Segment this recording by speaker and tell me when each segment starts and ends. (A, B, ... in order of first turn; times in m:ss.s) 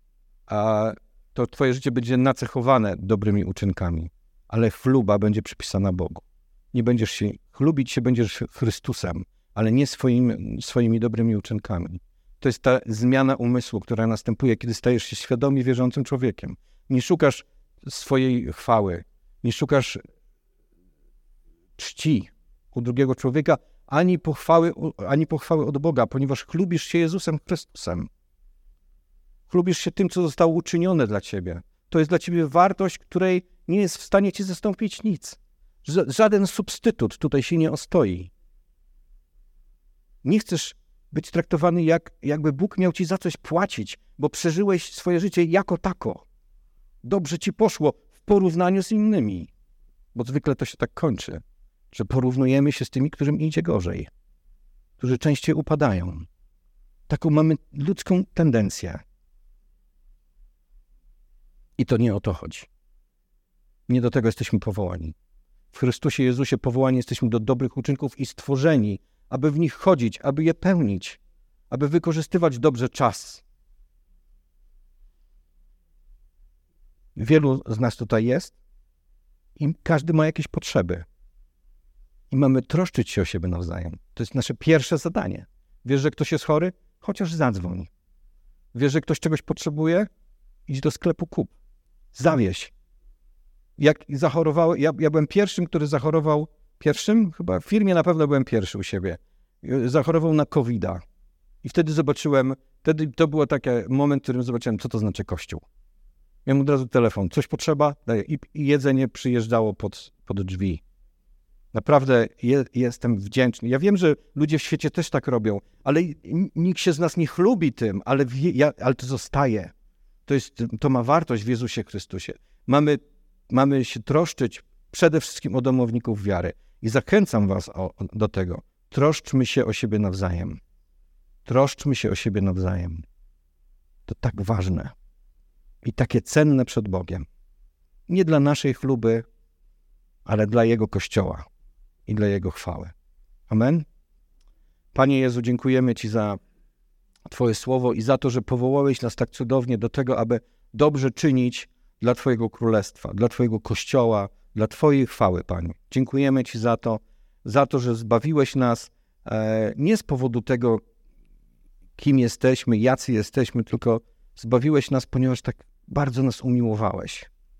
0:00.5-0:20.0 A
0:21.8-0:28.1 A
0:29.5-0:38.3 A
0:40.2-0:46.2 A
0:47.0-0:49.5 A
0:50.1-0:54.1 A
0:55.0-0:56.3 A
0:57.1-0:59.0 A
1:01.8-1:02.7 A
1:03.9-1:05.1 A
1:05.7-1:13.4 A
1:17.2-1:18.6 A
1:19.6-1:21.0 A
1:22.3-1:27.9 A
1:28.7-1:30.1 A
1:30.7-1:31.5 A
1:32.1-1:32.7 A
1:33.8-1:41.0 A
1:41.6-1:45.6 A
1:46.4-1:50.8 A
1:51.7-1:59.7 A
2:00.2-2:10.6 A
2:11.4-2:13.0 A
2:14.1-2:14.9 A
2:15.8-2:17.3 A
2:18.1-2:19.2 A
2:20.2-2:21.4 A
2:22.1-2:22.9 A
2:23.5-2:23.8 A
2:24.9-2:26.4 A
2:27.2-2:40.8 A
2:42.0-2:47.3 A